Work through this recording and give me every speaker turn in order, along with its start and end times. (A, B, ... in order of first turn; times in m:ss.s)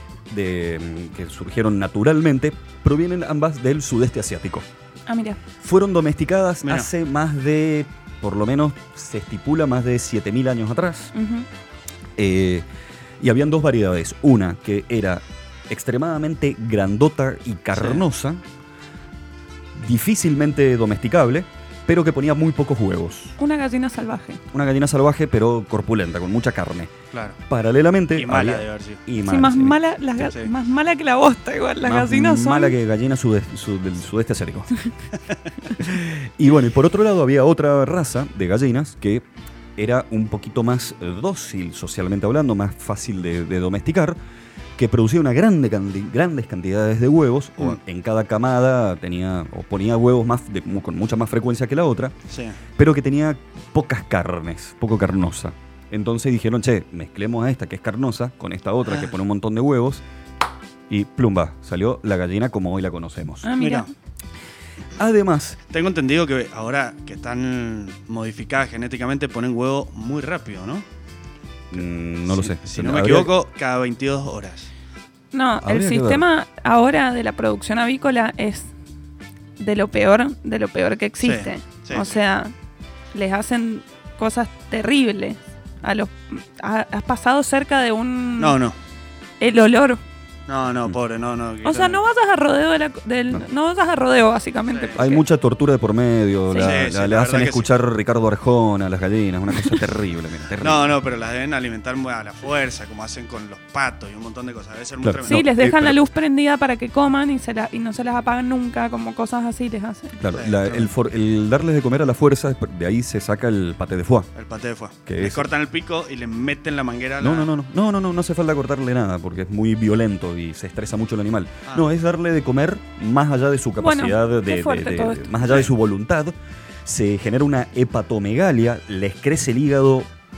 0:00.3-0:04.6 A
0:05.1-0:05.4 B
0:05.6-0:11.1 A
0:11.1-0:11.4 B
0:12.2-0:12.6 A
0:13.2-0:18.4 A
0:17.7-0:18.0 C
0:19.7-0:23.4 A
0:23.4-0:24.4 B
0:24.5-0:26.9 A
0:27.1-0:27.4 C
0:27.5-0:29.8 A
0:28.1-0:29.0 C
0:29.2-0:32.8 B
0:30.2-0:30.5 C
0:31.8-0:34.7 A
0:35.8-0:44.2 A
0:44.8-0:52.1 A
0:52.3-0:52.6 C
0:52.8-1:00.0 A
1:00.9-1:03.5 A
1:03.4-1:03.9 B
1:03.6-1:03.9 C
1:05.0-1:05.6 A
1:05.7-1:10.8 C
1:11.7-1:13.3 A
1:12.3-1:14.7 C
1:15.3-1:18.7 B
1:15.6-1:16.2 A
1:19.6-1:22.5 B
1:21.2-1:22.2 C
1:23.1-1:28.6 B
1:28.4-1:28.8 C
1:29.4-1:30.0 B
1:30.5-1:32.0 C
1:31.6-1:35.2 B
1:34.7-1:35.0 C
1:34.9-1:41.0 A
1:36.6-1:37.7 C
1:40.6-1:45.4 C
1:45.0-1:46.0 A
1:45.2-1:50.2 B
1:50.2-1:54.3 A
1:50.3-1:50.9 C
1:54.4-1:57.5 C
1:55.0-1:55.5 A
1:57.2-2:10.1 A
2:03.8-2:05.3 B
2:05.4-2:05.7 C